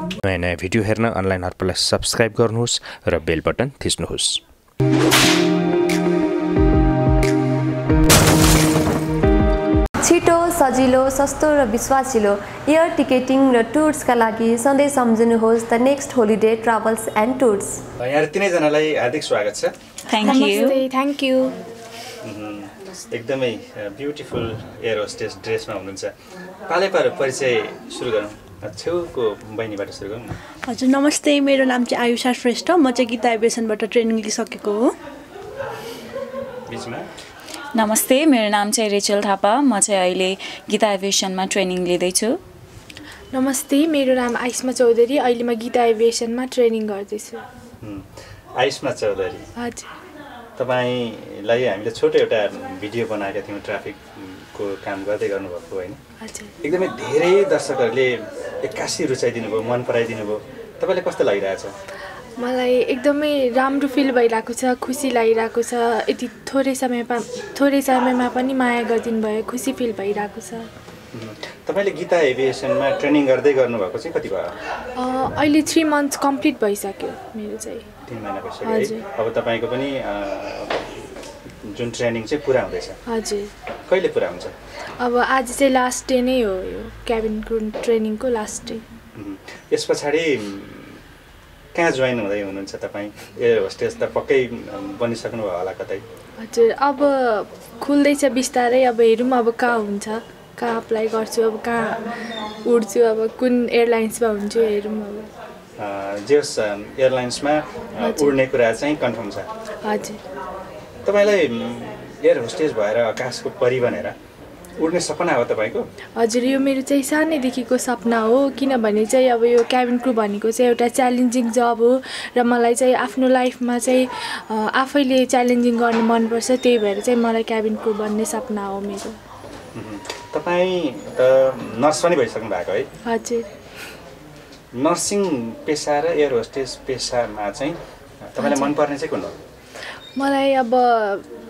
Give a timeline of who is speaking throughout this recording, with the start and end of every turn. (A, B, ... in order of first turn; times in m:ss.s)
0:00.2-0:04.4 A
0:10.0-0:13.3 B
0:16.0-0:16.4 B
0:18.0-0:19.7 C
0:20.1-0:20.8 D
0:20.2-0:21.5 E
0:22.2-0:26.1 C
0:26.7-0:30.4 C
0:30.6-0:34.9 F
0:36.7-0:37.1 C
0:37.7-0:42.4 D
0:43.3-0:47.4 E
0:48.6-0:49.4 C
0:49.6-0:49.9 E
0:50.6-0:56.0 C
0:56.2-0:56.5 E
0:56.6-1:01.7 C
1:02.4-1:10.7 E
1:11.1-1:14.5 C
1:15.0-1:17.8 E
1:18.0-1:23.0 C
1:18.6-1:19.0 E
1:23.1-1:23.5 E
1:23.9-1:24.5 C
1:25.0-1:28.8 E
1:29.2-1:31.0 C
1:31.7-1:36.0 C
1:36.4-1:42.0 E
1:42.7-1:45.3 E
1:45.8-1:49.5 C
1:48.0-1:48.4 E
1:49.8-1:50.2 E
1:51.0-1:54.2 C
1:54.8-1:55.9 C
1:56.2-2:09.2 E
2:09.7-2:12.9 C
2:13.0-2:13.5 E
2:14.7-2:19.3 C
2:18.4-2:18.7 E
2:20.2-2:21.2 E